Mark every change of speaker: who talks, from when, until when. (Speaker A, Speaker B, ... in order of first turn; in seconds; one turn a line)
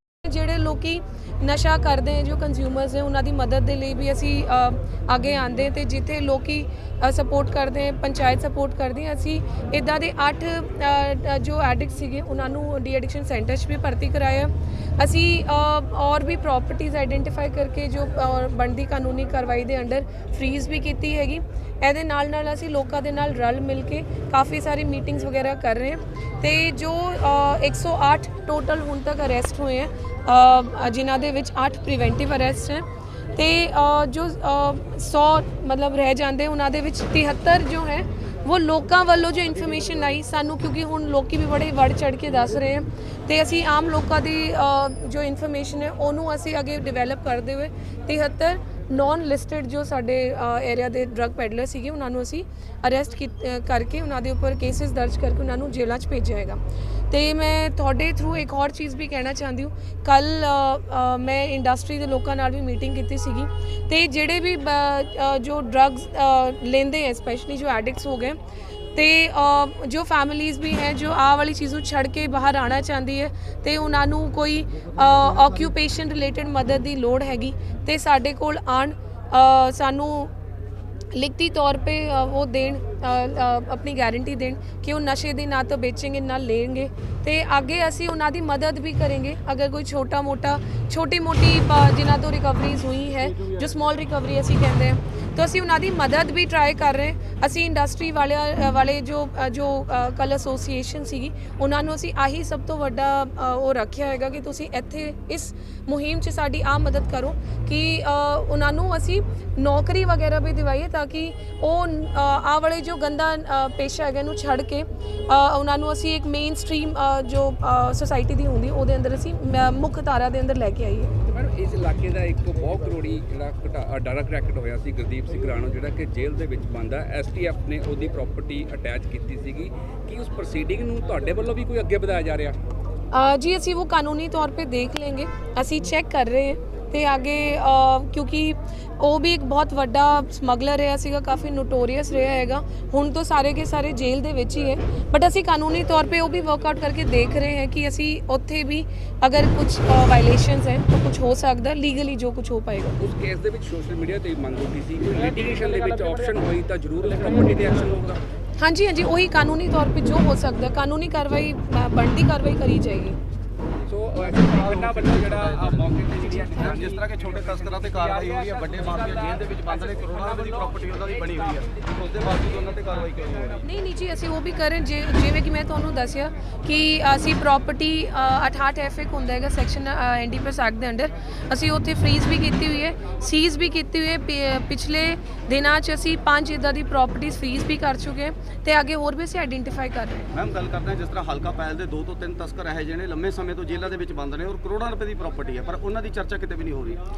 Speaker A: 0.2-68.4
Speaker A: 69.0-80.3
Speaker A: 81.1-121.1
Speaker B: 121.2-132.6
Speaker A: 133.1-153.0
Speaker B: 153.0-158.2
Speaker A: 158.6-163.2
Speaker B: 163.9-171.7
Speaker C: 164.3-173.6
Speaker A: 173.6-190.3
Speaker C: 190.3-197.0